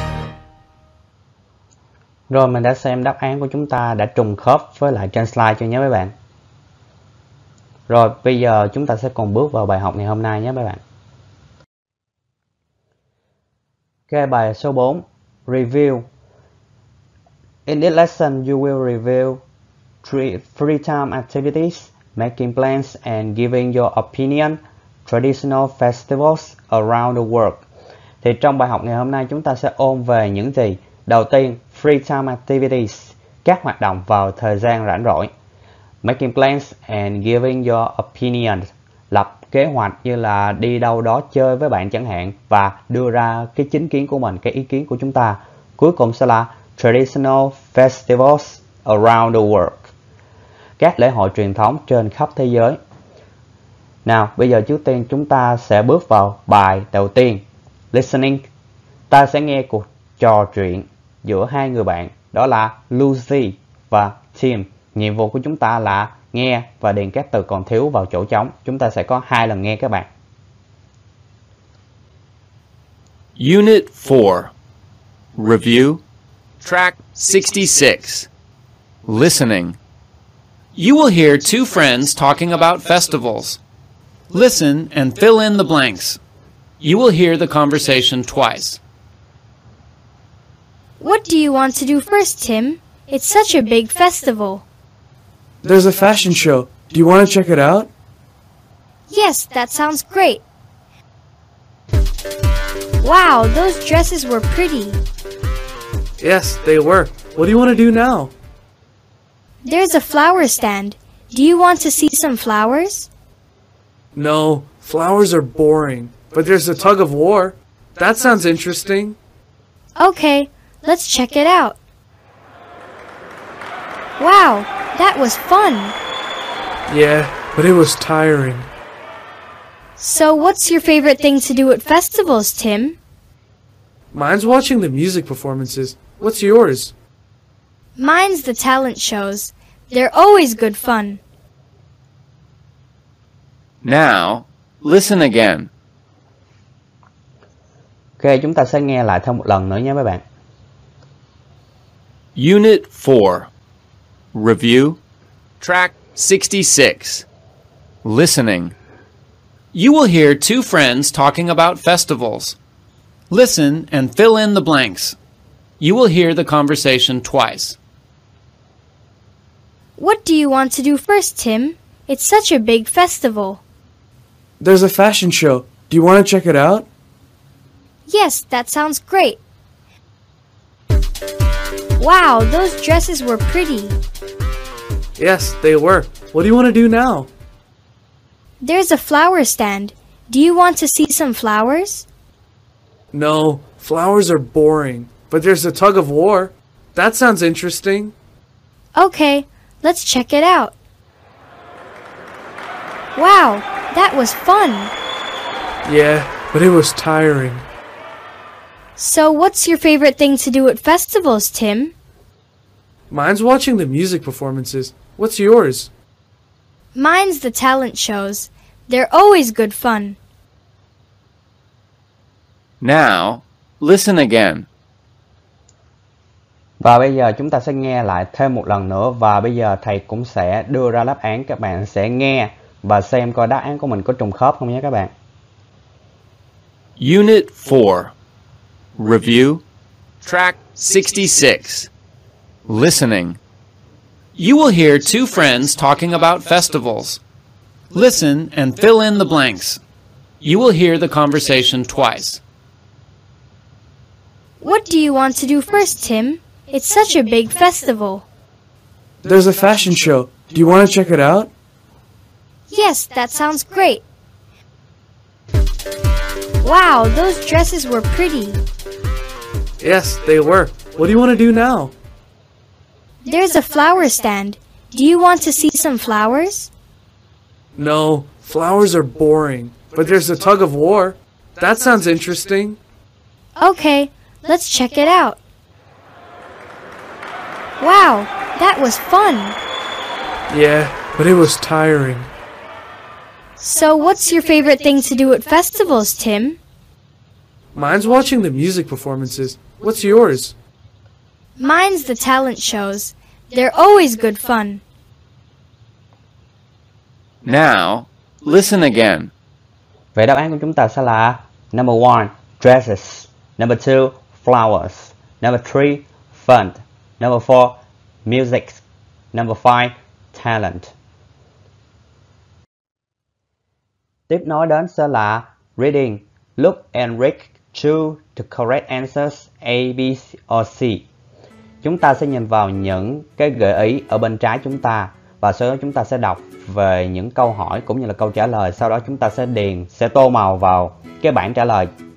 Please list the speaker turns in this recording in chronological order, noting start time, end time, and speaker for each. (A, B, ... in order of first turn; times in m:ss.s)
0:02.3-0:06.1 A
0:07.9-0:10.8 A
0:14.1-0:16.1 A
0:17.7-0:19.4 A
0:20.0-0:27.6 A
0:28.2-0:35.3 A
0:36.0-0:49.9 A
0:50.8-0:52.8 A
0:54.0-0:58.5 A
0:59.1-1:10.1 A
1:13.4-1:14.5 B
1:15.4-1:16.0 B
1:16.6-1:18.3 B
1:19.1-1:19.8 B
1:20.8-1:23.6 B
1:24.3-1:26.2 B
1:26.8-1:28.8 B
1:31.0-1:34.6 C
1:35.6-1:37.9 D
1:39.1-1:40.4 C
1:43.0-1:45.0 C
1:46.2-1:48.3 D
1:49.6-1:53.1 C
1:54.1-1:59.2 D
2:00.0-2:01.8 C
2:04.2-2:06.0 C
2:06.9-2:08.7 D
2:10.0-2:13.0 C
2:14.1-2:16.9 D
2:18.0-2:21.2 C
2:23.8-2:25.7 B
2:28.2-2:30.2 A
2:32.4-2:33.5 B
2:34.3-2:35.0 B
2:35.6-2:37.3 B
2:38.0-2:38.7 B
2:39.7-2:42.6 B
2:43.3-2:45.2 B
2:45.8-2:47.8 B
2:50.0-2:53.6 C
2:54.6-2:56.9 D
2:58.1-2:59.4 C
3:02.0-3:04.0 C
3:05.2-3:07.3 D
3:08.6-3:12.1 C
3:13.1-3:18.1 D
3:19.0-3:20.7 C
3:23.2-3:24.9 C
3:25.8-3:27.6 D
3:29.0-3:31.9 C
3:33.1-3:35.9 D
3:37.0-3:40.2 C
3:42.8-3:44.7 B
3:46.8-3:55.1 A
3:57.0-3:58.1 B
3:59.0-3:59.6 B
4:00.2-4:01.9 B
4:02.7-4:03.4 B
4:04.4-4:07.2 B
4:07.9-4:09.8 B
4:10.4-4:12.4 B
4:14.6-4:18.3 C
4:19.2-4:21.5 D
4:22.7-4:24.0 C
4:26.6-4:28.6 C
4:29.8-4:31.9 D
4:33.2-4:36.7 C
4:37.8-4:42.8 D
4:43.6-4:45.4 C
4:47.8-4:49.6 C
4:50.5-4:52.3 D
4:53.6-4:56.6 C
4:57.7-5:00.6 D
5:01.6-5:04.8 C
5:07.4-5:09.3 B
5:10.2-5:18.8 A
5:19.3-5:20.9 A
5:24.3-5:31.0 A
5:31.8-5:41.9 A